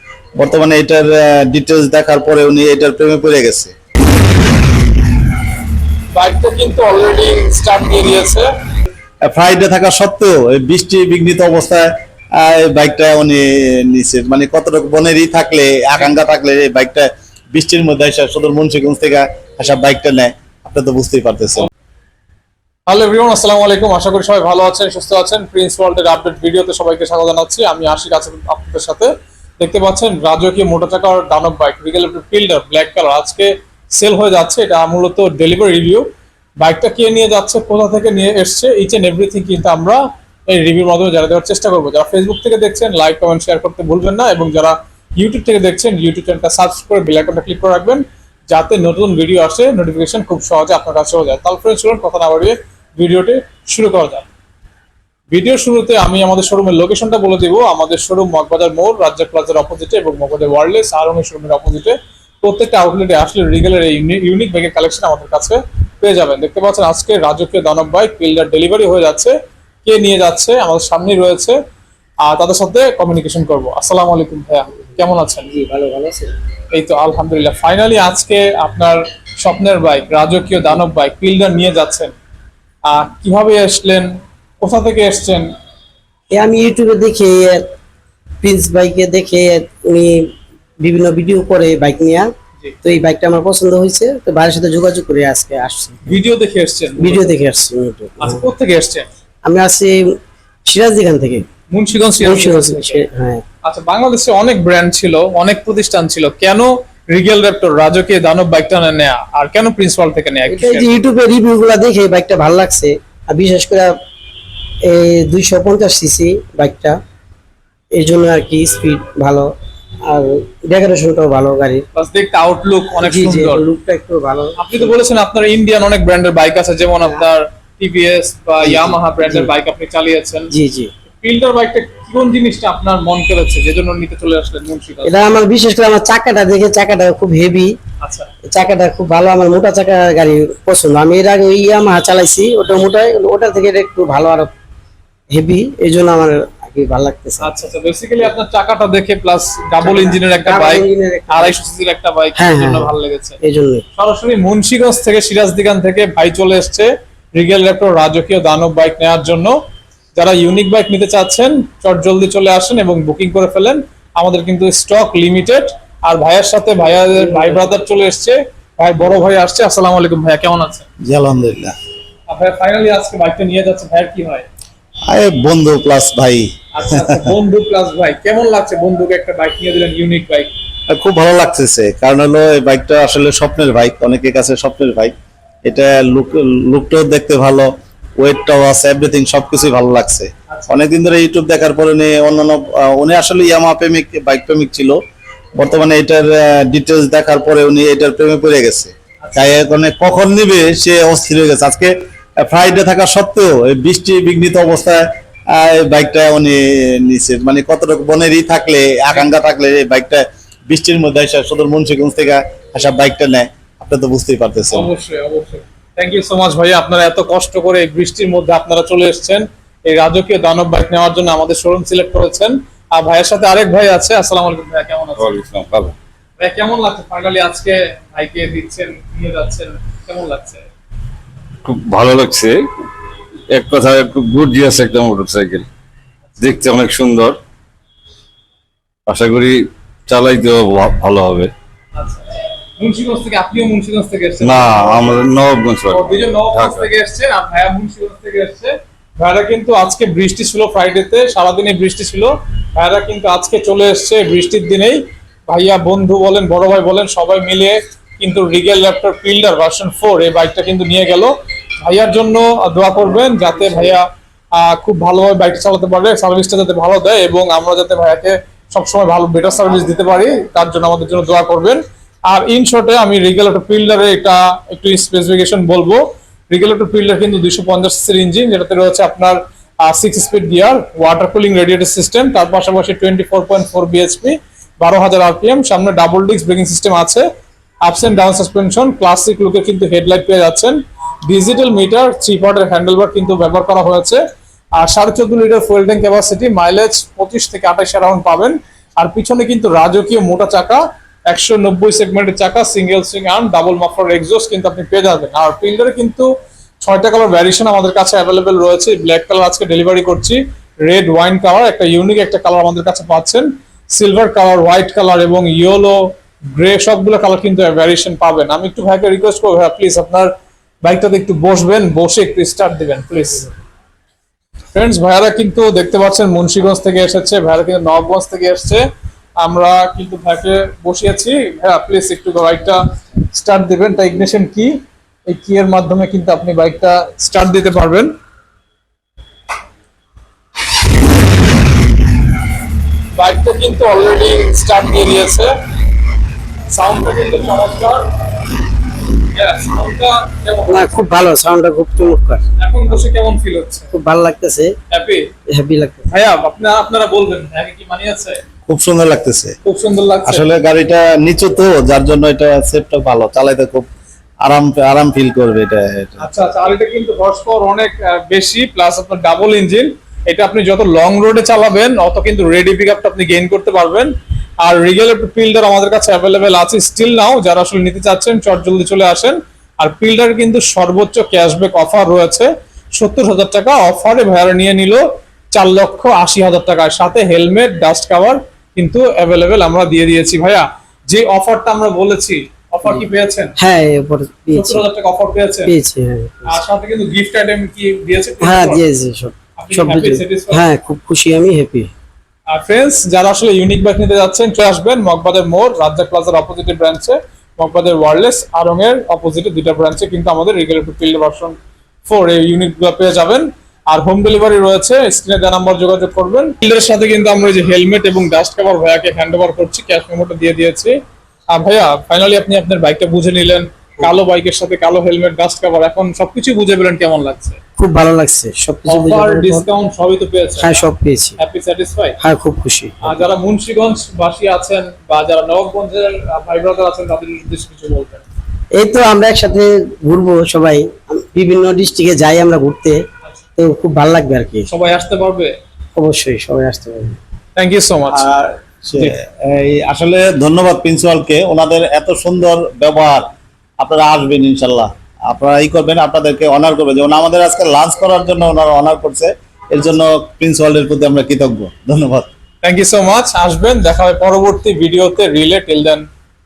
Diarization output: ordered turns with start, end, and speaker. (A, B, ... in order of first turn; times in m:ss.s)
0:00.4-0:03.7 A
0:06.1-0:08.5 B
0:09.3-0:21.7 A
0:22.9-0:36.0 B
0:36.6-0:54.3 B
0:55.3-1:11.6 B
1:12.2-1:15.5 B
1:15.5-1:16.3 C
1:16.7-1:22.1 B
1:22.8-1:25.5 B
1:26.3-1:27.6 C
1:28.4-1:30.1 C
1:30.8-1:32.3 C
1:32.8-1:36.0 C
1:36.0-1:37.3 B
1:37.0-1:38.4 C
1:38.2-1:39.0 B
1:39.4-1:40.0 C
1:40.7-1:41.5 C
1:41.7-1:43.0 B
1:42.2-1:43.4 C
1:43.6-1:50.9 B
1:50.5-1:53.9 C
1:54.8-1:57.0 C
1:58.0-1:59.5 C
2:00.1-2:01.8 C
2:01.9-2:03.6 B
2:03.0-2:04.9 C
2:04.6-2:10.5 B
2:08.6-2:09.5 C
2:10.5-2:10.9 C
2:11.2-2:15.2 B
2:15.0-2:17.7 C
2:18.0-2:18.3 B
2:18.5-2:24.5 C
2:25.3-2:27.5 C
2:27.4-2:33.4 B
2:29.8-2:31.6 C
2:32.4-2:32.9 C
2:33.4-2:33.8 C
2:34.0-2:39.6 B
2:40.2-2:50.9 B
2:51.0-2:51.7 A
2:52.3-2:54.5 B
2:55.1-2:57.3 A
2:56.7-3:00.5 B
3:00.9-3:05.1 A
3:05.7-3:15.0 A
3:15.6-3:34.9 A
3:19.2-3:19.6 B
3:34.7-3:45.4 B
3:45.2-3:46.0 D
3:46.4-3:50.7 B
3:51.6-3:52.6 D
3:53.5-3:55.7 D
3:56.4-3:57.4 D
3:59.1-4:01.5 D
4:02.0-4:02.2 B
4:02.8-4:05.2 B
4:04.4-4:06.9 D
4:05.9-4:47.2 B
4:47.8-4:54.2 B
4:54.8-5:06.3 B
5:06.8-5:20.3 B
5:20.8-5:23.5 B
5:24.7-5:28.8 B
5:29.4-5:32.8 B
5:33.3-5:34.7 B
5:35.3-5:38.1 B
5:43.2-5:45.5 B
5:46.7-5:48.3 B
5:49.3-5:51.0 B
5:50.7-5:52.4 C
5:52.6-5:53.9 B
5:53.9-5:54.7 C
5:54.9-5:55.2 B
5:55.5-5:56.1 C
5:56.1-5:58.4 B
5:58.7-5:59.6 A
5:59.6-6:00.4 B
6:00.2-6:03.8 A
6:04.4-6:06.2 A
6:06.2-6:14.1 B
6:14.6-6:33.5 B
6:33.6-6:34.8 C
6:34.5-6:35.7 B
6:35.6-6:36.6 C
6:36.5-6:38.8 B
6:38.4-6:41.9 C
6:39.6-6:40.6 B
6:42.5-7:01.0 B
7:01.5-7:07.6 B
7:07.8-7:09.7 C
7:08.9-7:10.8 B
7:10.6-7:11.4 C
7:11.4-7:12.2 B
7:12.2-7:13.2 C
7:13.0-7:18.2 B
7:18.8-7:23.0 C
7:23.6-7:24.7 C
7:24.7-7:25.5 B
7:25.9-7:27.2 C
7:27.6-7:28.3 B
7:28.1-7:33.3 A
7:33.8-7:42.3 A
7:42.6-7:46.1 B